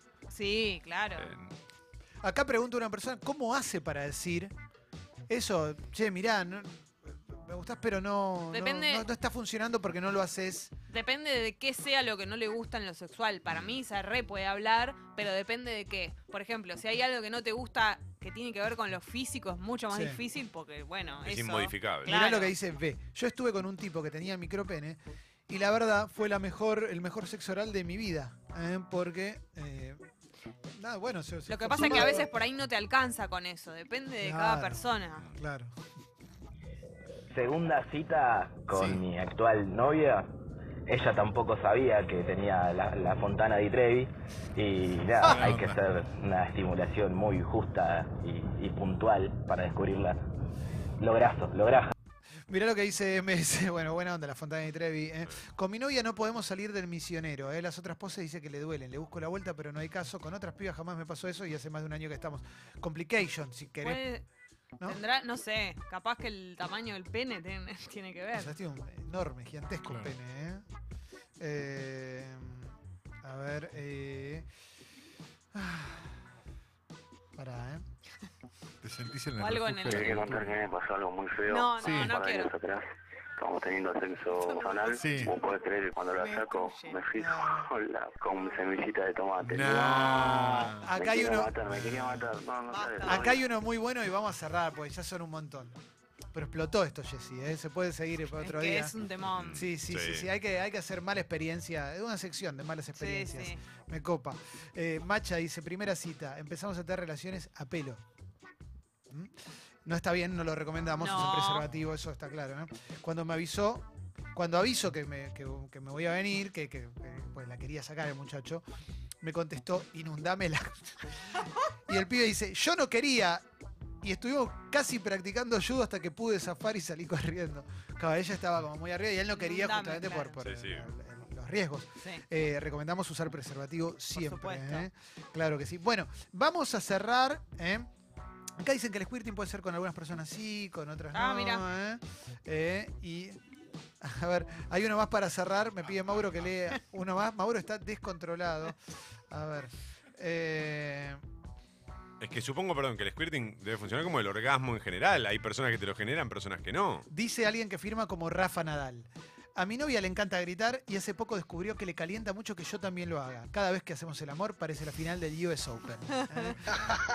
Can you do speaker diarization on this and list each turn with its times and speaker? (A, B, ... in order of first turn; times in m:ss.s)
0:00.3-0:01.3 A
0:01.2-0:01.5 B
0:02.2-0:04.5 C
0:05.3-0:10.7 C
0:08.5-0:09.0 A
0:10.9-0:22.5 A
0:13.5-0:13.7 B
0:19.9-0:20.2 C
0:21.2-0:22.1 B
0:22.0-0:30.0 C
0:30.7-0:32.3 C
0:31.5-0:35.2 A
0:34.2-0:35.7 C
0:37.3-0:40.3 D
0:38.7-0:39.0 E
0:40.9-0:50.3 D
0:45.2-0:45.8 E
0:51.0-0:51.9 D
0:52.5-1:04.0 C
1:03.8-1:04.2 A
1:04.8-1:08.5 A
1:08.3-1:10.6 C
1:09.8-1:10.1 E
1:11.4-1:14.5 C
1:15.5-1:16.1 C
1:17.4-1:17.8 C
1:18.8-1:20.6 E
1:19.4-1:20.3 A
1:19.9-1:22.8 F
1:21.5-1:22.5 A
1:21.8-1:22.2 E
1:23.4-1:33.4 F
1:24.3-1:25.4 A
1:24.9-1:25.3 E
1:26.1-1:27.0 A
1:27.1-1:27.7 C
1:29.4-1:30.9 E
1:30.2-1:31.5 C
1:31.7-1:32.3 E
1:32.7-1:35.8 C
1:36.3-1:38.9 C
1:38.4-1:39.6 A
1:39.2-1:40.3 B
1:39.5-1:48.0 C
1:43.0-1:43.6 A
1:49.8-1:58.6 C
1:51.0-1:51.6 A
1:59.2-2:03.4 C
2:04.0-2:17.9 C
2:09.4-2:10.4 A
2:10.4-2:10.9 B
2:14.2-2:14.9 A
2:18.6-2:23.4 C
2:21.1-2:21.6 A
2:24.0-2:28.8 C
2:29.3-2:31.2 C
2:32.2-2:37.1 B
2:37.1-2:46.8 C